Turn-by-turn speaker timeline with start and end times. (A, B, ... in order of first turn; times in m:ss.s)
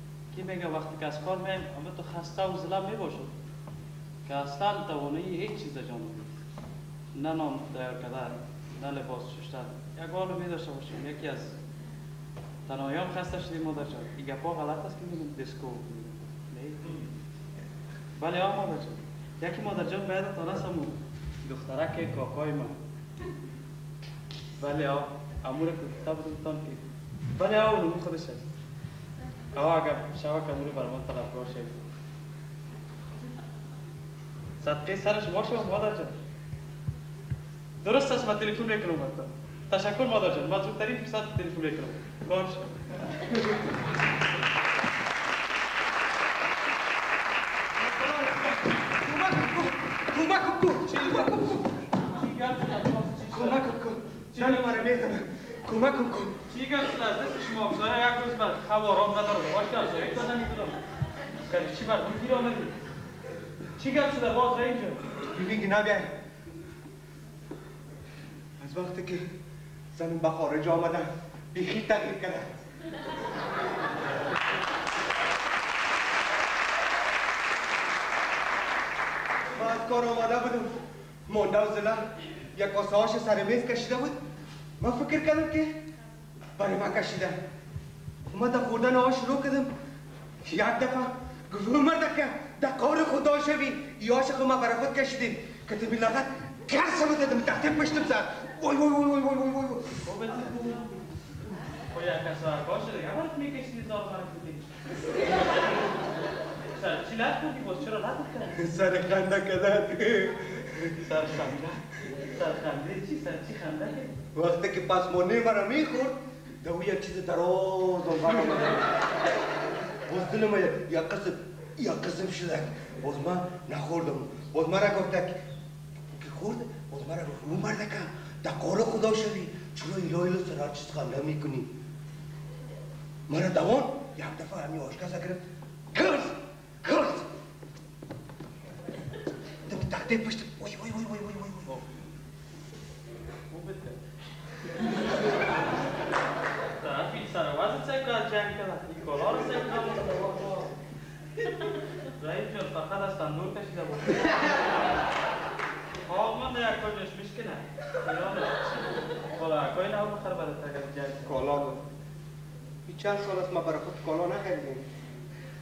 0:00.3-0:03.3 A
0:04.2-0:06.4 A
0:07.1-0:11.6 A
0:12.7-0:17.0 A
0:18.2-0:22.8 A
0:24.6-0:28.4 A
0:29.5-0:31.8 A
0:34.6-0:36.1 A
0:37.8-0:42.7 A
0:47.8-0:51.7 B
0:50.9-0:51.4 A
0:52.0-0:53.7 A
0:53.3-0:56.4 B
0:54.3-0:55.0 A
0:56.5-1:00.8 A
1:01.5-1:02.7 A
1:03.8-1:05.0 A
1:05.2-1:06.1 B
1:08.6-1:09.3 B
1:10.0-1:12.6 B
1:19.5-1:20.7 B
1:21.3-1:24.2 B
1:24.8-1:25.8 B
1:26.6-1:27.4 B
1:28.3-1:29.7 B
1:30.4-1:40.0 B
1:40.0-1:40.9 A
1:41.9-1:44.7 A
1:46.7-1:48.7 A
1:48.6-1:51.0 B
1:51.0-1:54.2 A
1:54.3-1:58.9 B
2:00.1-2:05.4 B
2:06.1-2:11.7 B
2:13.3-2:15.4 B
2:15.9-2:17.3 B
2:19.7-2:21.8 B
2:23.5-2:24.0 A
2:26.8-2:30.7 A
2:32.2-2:34.7 A
2:36.0-2:41.3 A
2:41.3-2:41.8 B
2:42.9-2:44.8 B